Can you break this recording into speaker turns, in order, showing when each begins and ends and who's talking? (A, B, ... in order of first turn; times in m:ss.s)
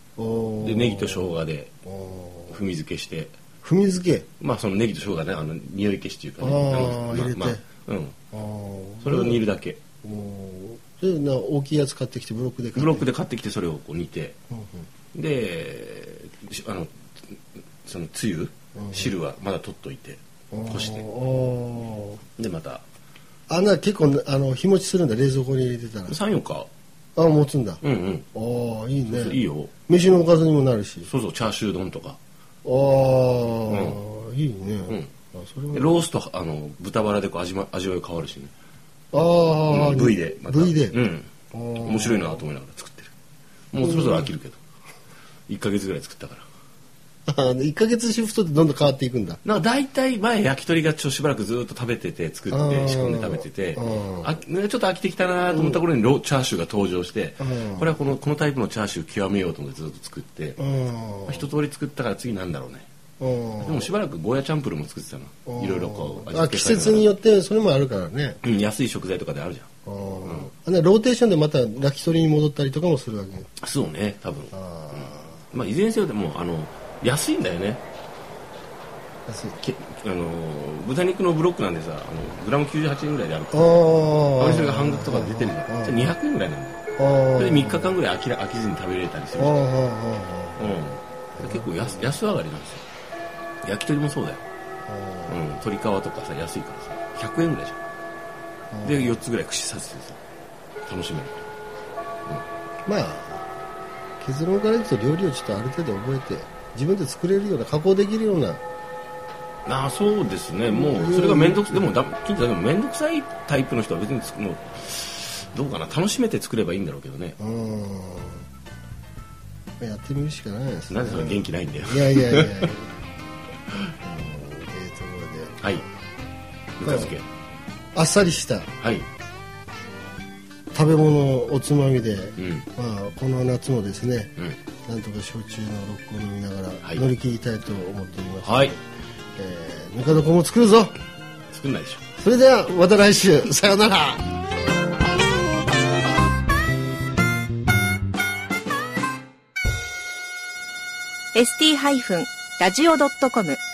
0:00.2-0:02.6 A
0:00.6-0:01.7 B
0:02.5-0:03.4 B
0:03.6-0:04.3 A
0:04.4-0:08.2 B
0:06.4-0:07.6 A
0:08.3-0:09.5 A
0:09.0-0:09.8 B
0:10.0-0:13.1 A
0:12.7-0:14.4 B
0:14.5-0:14.9 A
0:15.1-0:21.0 B
0:18.8-0:19.2 A
0:20.5-0:22.2 A
0:22.4-0:22.8 B
0:23.5-0:26.2 A
0:26.1-0:26.7 B
0:27.2-0:27.8 A
0:27.8-0:28.3 B
0:28.3-0:31.1 A
0:29.0-0:29.7 B
0:31.0-0:32.2 B
0:32.6-0:36.0 A
0:33.7-0:34.0 B
0:35.7-0:38.5 B
0:39.1-0:41.0 A
0:39.7-0:43.1 B
0:41.5-0:42.4 A
0:43.7-0:44.6 B
0:43.8-0:44.3 A
0:45.5-0:46.4 B
0:47.3-0:49.4 A
0:49.4-1:00.6 B
0:52.5-0:54.3 A
0:55.5-0:55.8 A
0:57.4-0:57.9 A
1:00.6-1:01.5 A
1:01.3-1:02.9 B
1:03.2-1:03.9 A
1:03.6-1:07.1 B
1:05.4-1:08.4 A
1:08.4-1:09.7 B
1:09.8-1:13.5 A
1:10.2-1:10.5 B
1:13.6-1:17.8 B
1:14.5-1:15.4 A
1:19.3-1:19.6 A
1:19.6-1:26.8 B
1:23.5-1:26.1 A
1:27.0-1:28.0 A
1:27.3-1:29.7 B
1:29.4-1:30.8 A
1:30.6-1:32.8 B
1:31.3-1:32.1 A
1:33.6-1:34.4 B
1:34.9-1:35.4 A
1:35.3-1:37.8 B
1:38.7-1:39.2 A
1:38.8-1:40.2 B
1:40.8-1:41.4 B
1:42.8-1:43.5 A
1:44.2-1:48.6 A
1:49.6-1:57.4 B
1:50.7-1:51.9 A
1:57.4-1:58.4 A
1:59.8-2:03.0 A
2:00.9-2:02.7 B
2:04.0-2:05.8 A
2:06.8-2:07.3 B
2:06.8-2:07.2 A
2:07.9-2:08.7 A
2:08.8-2:09.1 B
2:10.7-2:14.3 A
2:12.4-2:12.7 B
2:14.9-2:18.8 A
2:18.4-2:18.8 B
2:19.4-2:21.0 A
2:21.5-2:22.0 B
2:22.2-2:24.2 A
2:31.3-2:33.6 C